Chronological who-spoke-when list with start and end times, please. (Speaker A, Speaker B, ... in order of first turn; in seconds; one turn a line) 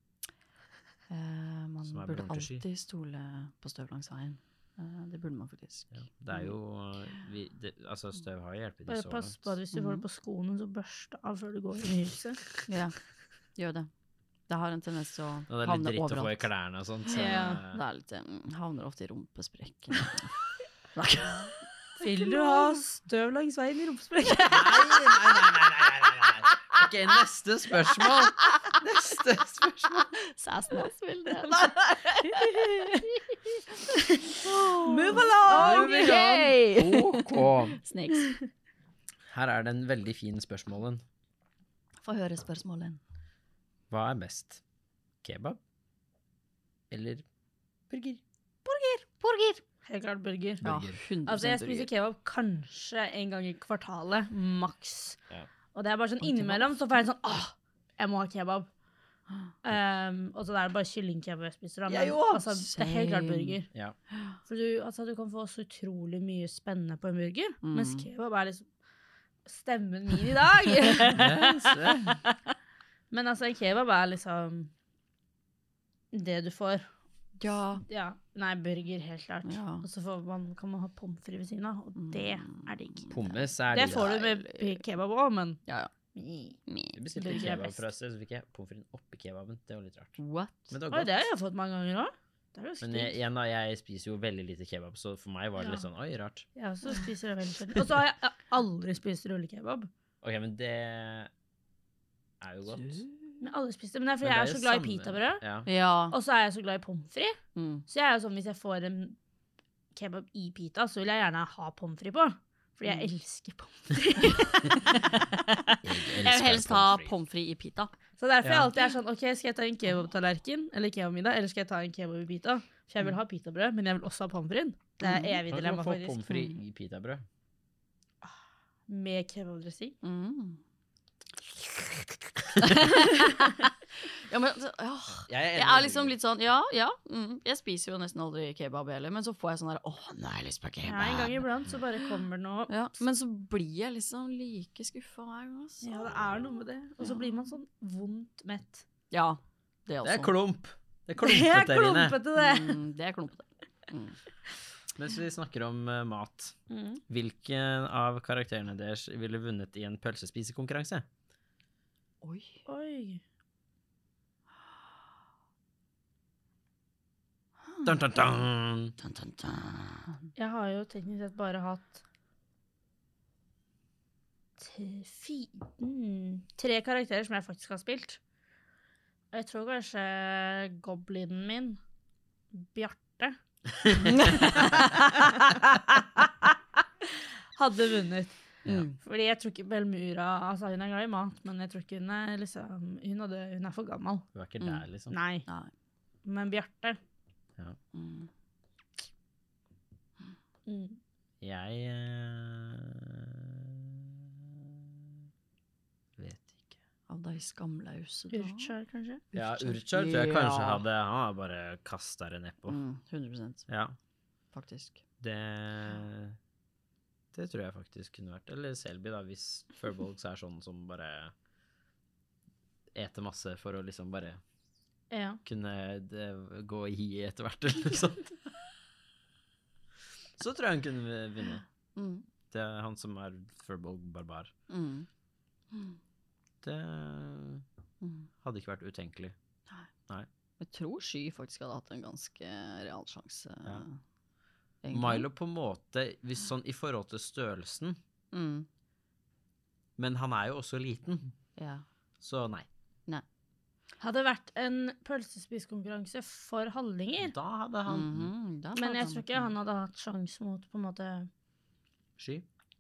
Speaker A: 1.1-6.5
Speaker B: 1.9-2.6
Speaker B: 5.9-9.5
Speaker C: 8.9-12.4
Speaker A: 9.7-10.0
Speaker A: 12.7-13.0
Speaker A: 13.6-13.9
Speaker A: 14.5-16.5
Speaker B: 15.5-17.8
Speaker C: 17.1-17.6
Speaker A: 17.1-20.4
Speaker A: 20.9-22.8
Speaker C: 22.0-25.1
Speaker B: 24.5-30.1
Speaker A: 30.1-38.4
Speaker C: 32.3-33.1
Speaker C: 34.8-36.2
Speaker B: 35.5-37.8
Speaker B: 39.3-41.0
Speaker A: 42.0-43.0
Speaker B: 43.9-44.6
Speaker B: 45.2-45.6
Speaker B: 46.9-47.2
Speaker B: 47.9-48.2
Speaker C: 48.6-49.2
Speaker A: 49.2-49.6
Speaker C: 49.8-50.7
Speaker B: 50.6-51.0
Speaker A: 50.6-51.9
Speaker C: 51.2-55.2
Speaker C: 55.7-58.7
Speaker A: 56.2-56.7
Speaker C: 59.6-63.7
Speaker A: 61.9-63.6
Speaker A: 64.1-64.4
Speaker C: 64.5-68.7
Speaker A: 67.6-68.1
Speaker C: 69.5-71.4
Speaker A: 71.0-72.3
Speaker B: 71.1-72.2
Speaker C: 73.1-74.7
Speaker C: 76.1-76.9
Speaker A: 77.4-77.8
Speaker C: 77.9-83.1
Speaker A: 79.5-79.8
Speaker A: 82.0-84.8
Speaker B: 83.1-84.1
Speaker C: 83.7-85.6
Speaker C: 86.2-86.6
Speaker A: 86.7-87.6
Speaker B: 86.9-90.2
Speaker C: 87.2-87.8
Speaker A: 90.2-90.7
Speaker B: 90.7-91.2
Speaker C: 90.9-93.2
Speaker B: 92.8-96.5
Speaker C: 96.6-99.9
Speaker B: 100.2-101.3
Speaker B: 102.4-103.0
Speaker A: 102.7-103.1
Speaker C: 103.4-105.4
Speaker B: 104.2-105.7
Speaker A: 105.7-106.2
Speaker C: 106.1-109.2
Speaker A: 107.5-107.8
Speaker C: 109.9-115.0
Speaker A: 114.2-117.9
Speaker B: 115.8-117.1
Speaker C: 118.2-126.2
Speaker B: 118.4-118.7
Speaker A: 125.0-125.4
Speaker B: 125.5-127.2
Speaker A: 126.3-126.5
Speaker C: 128.9-129.9
Speaker A: 130.0-130.6
Speaker A: 132.6-141.4
Speaker B: 135.2-136.2
Speaker C: 140.8-142.8
Speaker A: 141.9-146.0
Speaker C: 145.8-148.8
Speaker A: 149.1-150.3
Speaker B: 150.0-152.2
Speaker C: 151.2-152.8
Speaker A: 152.4-154.2
Speaker B: 154.9-156.6
Speaker C: 156.7-157.0
Speaker B: 157.1-161.1
Speaker A: 162.2-162.6
Speaker C: 162.7-163.2
Speaker A: 167.7-167.9
Speaker B: 167.8-169.0
Speaker A: 169.0-170.3
Speaker C: 170.4-172.0
Speaker C: 174.6-178.2
Speaker C: 179.3-181.8
Speaker C: 182.5-183.4
Speaker B: 183.8-184.8
Speaker A: 184.0-185.3
Speaker C: 184.3-185.4
Speaker C: 187.6-188.3
Speaker A: 188.7-189.0
Speaker C: 189.0-194.3
Speaker B: 194.3-195.2
Speaker C: 195.1-195.5
Speaker C: 196.2-197.0
Speaker A: 197.9-198.3
Speaker C: 200.7-201.0
Speaker B: 201.4-204.8
Speaker B: 206.2-206.8
Speaker A: 207.1-208.7
Speaker C: 208.3-209.2
Speaker A: 209.3-210.8
Speaker B: 209.3-212.8
Speaker A: 212.7-213.7
Speaker B: 213.7-214.0
Speaker A: 214.5-215.0
Speaker B: 215.2-216.4
Speaker B: 217.3-221.3
Speaker B: 222.9-224.4
Speaker C: 225.1-225.4
Speaker B: 225.4-228.4
Speaker B: 230.4-231.7
Speaker A: 232.0-232.3
Speaker B: 232.5-234.5
Speaker A: 234.7-235.1
Speaker A: 235.7-236.0
Speaker B: 236.6-237.6
Speaker A: 238.0-238.3
Speaker B: 238.4-239.3
Speaker A: 240.6-244.0
Speaker A: 244.8-245.3
Speaker B: 244.9-248.0
Speaker A: 248.3-248.7
Speaker B: 250.0-251.3
Speaker A: 251.6-251.8
Speaker B: 252.2-252.7
Speaker C: 254.0-257.4
Speaker B: 257.2-258.3
Speaker A: 257.9-259.5
Speaker C: 258.8-261.3
Speaker B: 262.2-262.5